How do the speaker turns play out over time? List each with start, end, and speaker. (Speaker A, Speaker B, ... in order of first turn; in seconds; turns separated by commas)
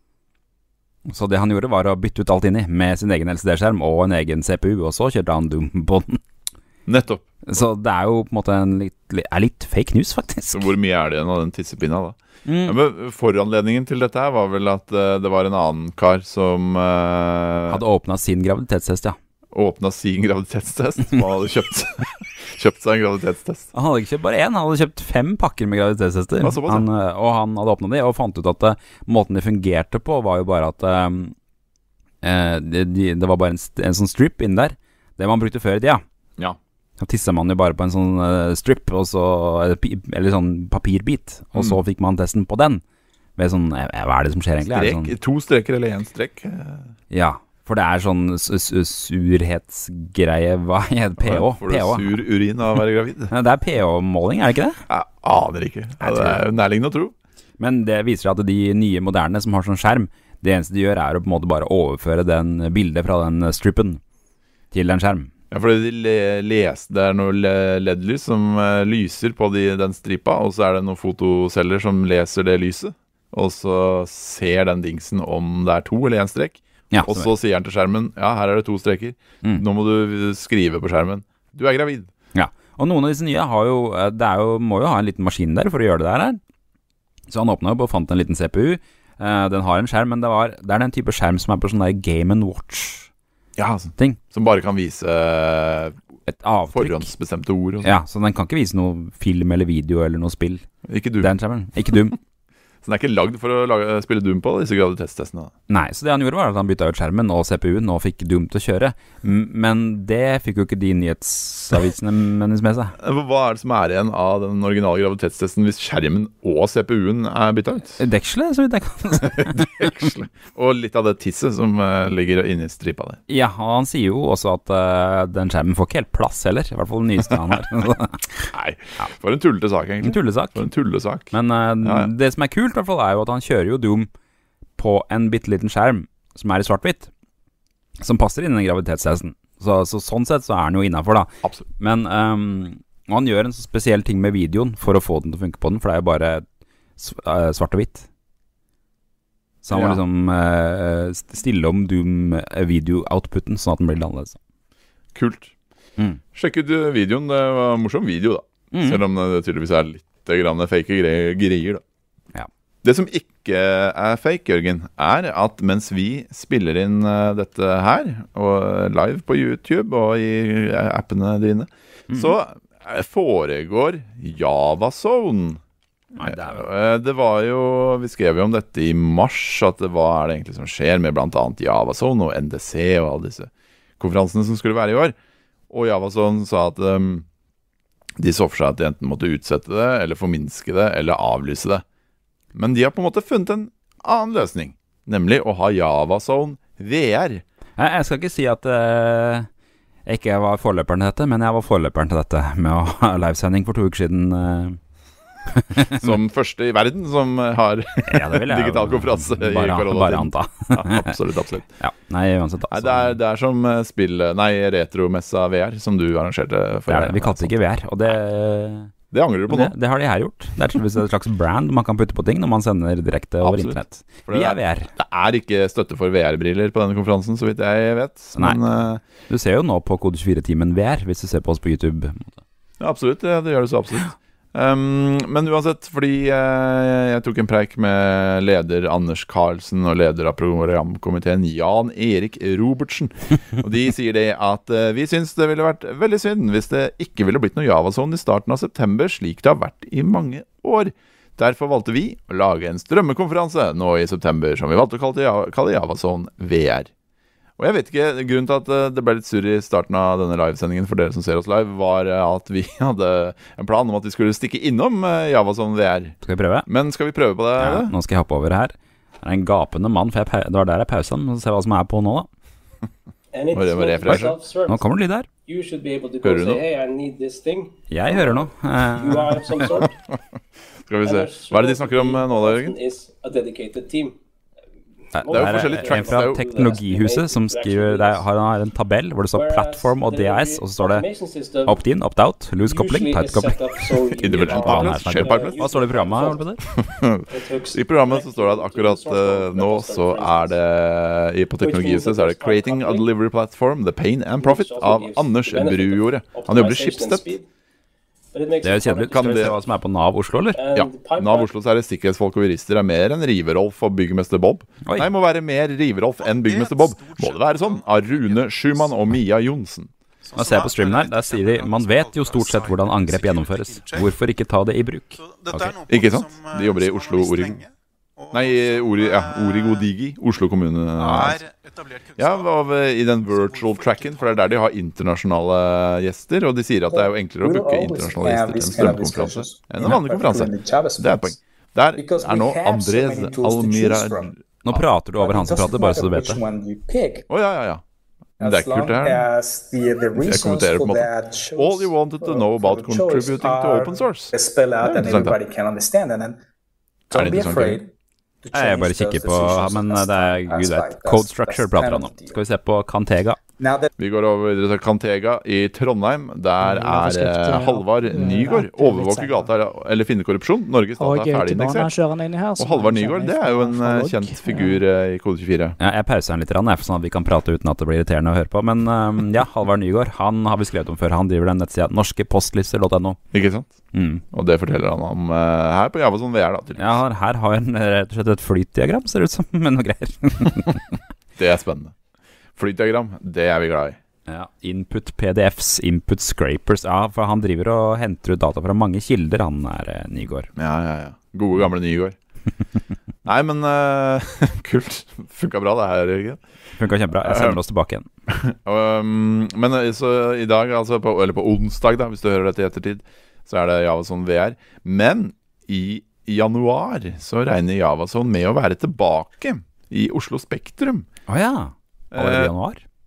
Speaker A: 1.1-6.2, Speaker B: 6.9-7.2, Speaker A: 7.5-10.7, Speaker B: 10.5-17.8, Speaker A: 12.4-12.8, Speaker A: 17.7-19.2, Speaker B: 19.5-23.7, Speaker A: 23.7-31.4, Speaker B: 26.4-26.9, Speaker A: 32.2-36.0, Speaker A: 37.0-42.8, Speaker A: 43.4-45.1, Speaker B: 44.6-46.9, Speaker A: 47.1-52.2, Speaker B: 51.2-53.3, Speaker A: 53.3-54.8, Speaker B: 54.9-57.1, Speaker A: 56.0-56.4, Speaker A: 57.6-64.0, Speaker A: 64.7-65.3, Speaker B: 65.5-82.1, Speaker A: 76.9-77.3, Speaker A: 82.3-86.4, Speaker A: 87.3-93.1, Speaker B: 93.6-96.0, Speaker A: 96.3-97.1, Speaker B: 96.7-98.0, Speaker A: 97.8-100.7, Speaker B: 100.9-101.3, Speaker A: 101.2-102.2, Speaker B: 102.8-105.5, Speaker A: 105.7-113.0, Speaker B: 113.0-118.0, Speaker A: 118.0-120.0, Speaker B: 119.2-123.2, Speaker A: 123.3-128.3, Speaker B: 128.4-132.1, Speaker A: 130.0-130.7, Speaker A: 131.3-134.1, Speaker A: 134.8-137.1, Speaker A: 138.0-146.4, Speaker A: 147.0-148.1, Speaker A: 149.6-154.4, Speaker B: 149.7-150.0, Speaker B: 155.2-155.5, Speaker B: 156.3-161.8, Speaker A: 158.7-159.0, Speaker B: 162.8-175.6, Speaker A: 172.1-172.3, Speaker A: 176.2-176.6, Speaker B: 176.2-185.2, Speaker B: 185.7-187.2, Speaker B: 188.2-191.8, Speaker B: 192.5-197.4, Speaker A: 197.8-199.5, Speaker A: 200.1-204.8, Speaker A: 205.5-206.1, Speaker B: 205.9-211.7, Speaker A: 208.1-211.1, Speaker A: 211.8-213.2, Speaker B: 212.7-217.5, Speaker A: 216.9-218.9, Speaker B: 219.1-219.8, Speaker A: 219.5-224.9, Speaker B: 223.4-229.0, Speaker A: 229.3-232.4, Speaker B: 232.8-256.9, Speaker B: 257.6-267.9, Speaker A: 266.2-266.7, Speaker A: 267.6-272.3, Speaker C: 273.3-274.8, Speaker B: 273.5-274.4, Speaker A: 274.1-275.3, Speaker C: 275.5-279.9, Speaker B: 276.2-276.6, Speaker A: 277.9-279.7, Speaker B: 280.9-282.8, Speaker C: 281.1-284.1, Speaker A: 285.1-291.1, Speaker C: 285.2-288.2, Speaker B: 285.3-286.4, Speaker C: 289.3-291.8, Speaker A: 291.7-296.6, Speaker C: 292.6-296.5, Speaker B: 294.2-295.7, Speaker B: 296.7-307.3, Speaker C: 297.3-300.6, Speaker C: 301.6-303.1, Speaker C: 304.4-307.4, Speaker C: 308.3-309.6, Speaker A: 308.6-310.6, Speaker B: 309.1-309.6, Speaker C: 310.6-311.5, Speaker B: 310.7-319.9, Speaker A: 314.9-315.1, Speaker D: 316.2-319.0, Speaker D: 320.2-324.2, Speaker A: 320.4-325.7, Speaker D: 325.2-329.9, Speaker B: 325.9-327.6, Speaker B: 328.3-331.4, Speaker D: 331.0-332.5, Speaker B: 332.2-344.8, Speaker D: 333.2-334.6, Speaker E: 336.9-341.4, Speaker E: 342.0-344.3, Speaker A: 344.6-346.4, Speaker E: 345.2-347.3, Speaker B: 347.3-347.8, Speaker B: 348.4-349.3, Speaker E: 348.4-356.4, Speaker B: 350.2-355.4, Speaker E: 357.1-357.9, Speaker B: 357.1-357.8, Speaker E: 358.4-362.4, Speaker A: 358.5-363.4, Speaker E: 363.6-363.9, Speaker B: 364.0-372.0, Speaker F: 366.6-369.5, Speaker F: 371.0-374.8, Speaker B: 372.6-375.8, Speaker A: 375.8-383.2, Speaker B: 383.3-383.8, Speaker A: 383.9-384.2, Speaker B: 384.3-387.0, Speaker A: 386.8-390.8, Speaker B: 391.4-391.9, Speaker B: 392.6-394.0, Speaker A: 394.3-400.5, Speaker B: 400.6-402.2, Speaker B: 403.2-406.4, Speaker A: 406.8-408.1, Speaker B: 407.1-407.6, Speaker B: 408.3-421.1, Speaker A: 421.3-422.8, Speaker B: 422.1-422.5